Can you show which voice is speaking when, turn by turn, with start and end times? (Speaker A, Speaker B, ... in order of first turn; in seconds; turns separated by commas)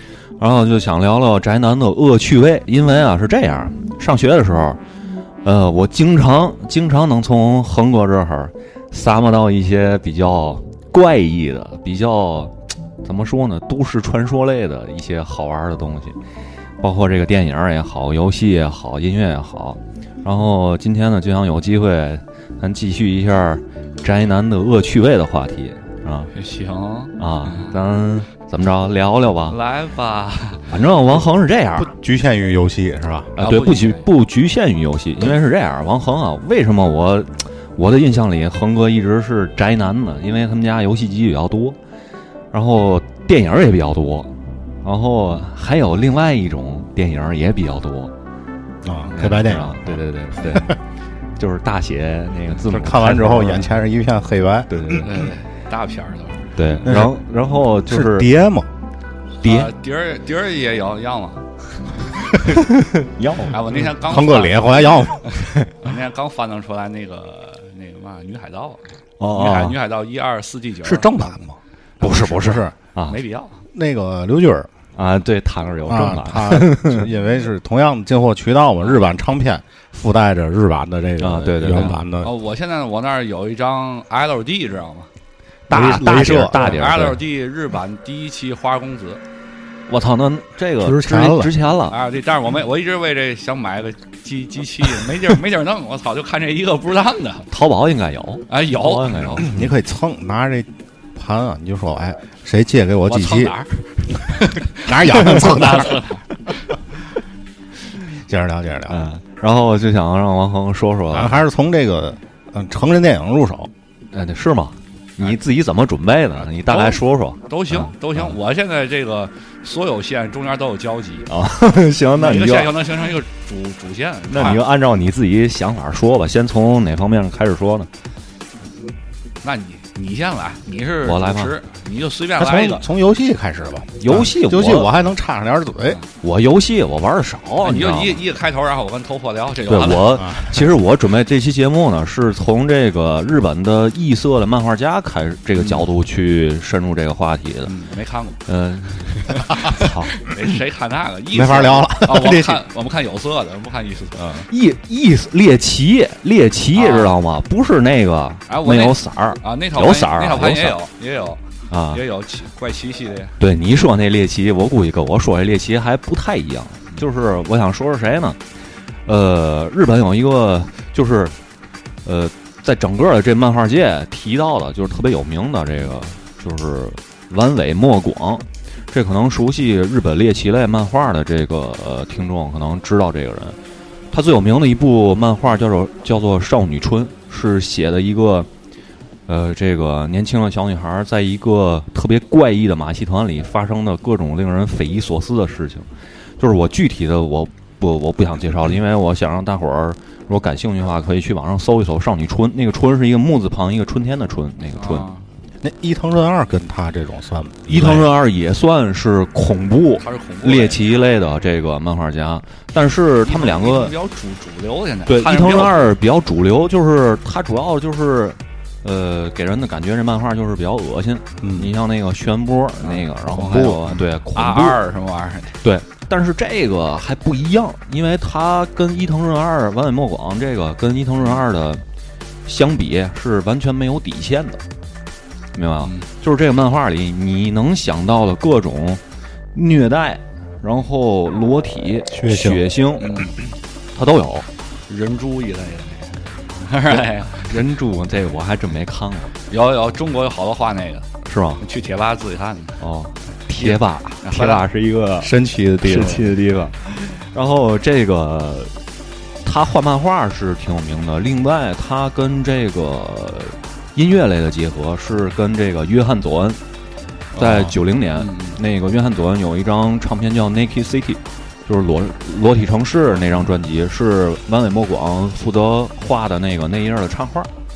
Speaker A: 0.4-4.8, Speaker A: 5.4-12.5, Speaker A: 13.0-16.1, Speaker A: 16.8-26.3, Speaker B: 26.3-27.7, Speaker A: 27.2-29.6, Speaker B: 29.5-30.6, Speaker A: 30.7-31.9, Speaker C: 31.8-33.3, Speaker B: 33.4-34.0, Speaker A: 33.4-41.8, Speaker A: 42.5-44.3, Speaker A: 44.8-48.1, Speaker C: 48.8-50.8, Speaker A: 49.1-50.8, Speaker A: 51.4-53.7, Speaker C: 52.7-55.0, Speaker A: 54.7-55.1, Speaker B: 55.0-56.5, Speaker A: 56.5-58.3, Speaker C: 56.8-57.1, Speaker C: 57.9-58.7, Speaker A: 59.4-59.7, Speaker B: 59.4-61.5, Speaker A: 63.0-63.6, Speaker B: 63.5-64.8, Speaker C: 64.0-65.4, Speaker B: 65.8-71.3, Speaker A: 69.2-69.8, Speaker C: 70.8-72.7, Speaker B: 72.0-73.6, Speaker A: 72.9-73.2, Speaker C: 73.7-74.7, Speaker A: 75.0-77.0, Speaker C: 75.9-82.3, Speaker A: 81.2-82.0, Speaker B: 82.2-85.1, Speaker A: 85.7-87.2, Speaker C: 85.7-86.9, Speaker B: 85.7-89.2, Speaker A: 89.9-92.0, Speaker C: 90.8-91.5, Speaker B: 91.9-97.5, Speaker A: 97.5-99.7, Speaker B: 98.5-99.5, Speaker C: 99.4-103.5, Speaker B: 103.1-106.6, Speaker C: 104.8-105.9, Speaker C: 108.1-109.0, Speaker A: 108.9-111.4, Speaker C: 111.1-113.7, Speaker A: 114.1-118.3, Speaker B: 116.6-121.3, Speaker A: 121.3-122.8, Speaker B: 122.2-124.6, Speaker A: 124.3-127.9, Speaker B: 129.4-132.8, Speaker A: 131.0-131.5, Speaker C: 132.4-136.0, Speaker A: 134.0-134.9, Speaker A: 136.2-138.2, Speaker B: 137.6-140.1, Speaker A: 139.7-147.7, Speaker C: 140.2-140.6, Speaker B: 145.6-145.8, Speaker B: 147.7-148.4, Speaker A: 148.5-150.1, Speaker B: 150.2-154.2, Speaker C: 151.3-152.6, Speaker C: 154.2-154.4, Speaker A: 154.5-160.8, Speaker B: 156.7-157.1, Speaker B: 158.5-163.3, Speaker A: 161.7-162.0, Speaker A: 163.4-168.4, Speaker A: 169.1-171.3, Speaker A: 172.0-183.6, Speaker A: 184.1-188.5, Speaker A: 189.3-195.9, Speaker A: 196.4-205.1, Speaker B: 204.8-205.2, Speaker C: 205.6-208.1, Speaker A: 207.7-213.9, Speaker B: 210.0-211.0, Speaker B: 213.2-215.8, Speaker A: 215.1-224.8, Speaker C: 221.4-221.7, Speaker C: 223.3-224.0, Speaker B: 224.3-225.6, Speaker A: 225.6-231.8, Speaker A: 232.4-234.6, Speaker A: 235.5-239.0, Speaker A: 239.5-243.2, Speaker C: 242.1-242.6, Speaker B: 243.0-243.3, Speaker A: 243.9-244.5, Speaker B: 244.9-247.5, Speaker A: 246.9-249.3, Speaker B: 249.5-251.1, Speaker A: 251.2-251.6, Speaker B: 251.6-252.8, Speaker A: 252.8-258.7, Speaker B: 253.6-254.6, Speaker C: 255.2-256.3, Speaker A: 259.4-266.6, Speaker B: 267.3-268.6, Speaker A: 267.4-277.5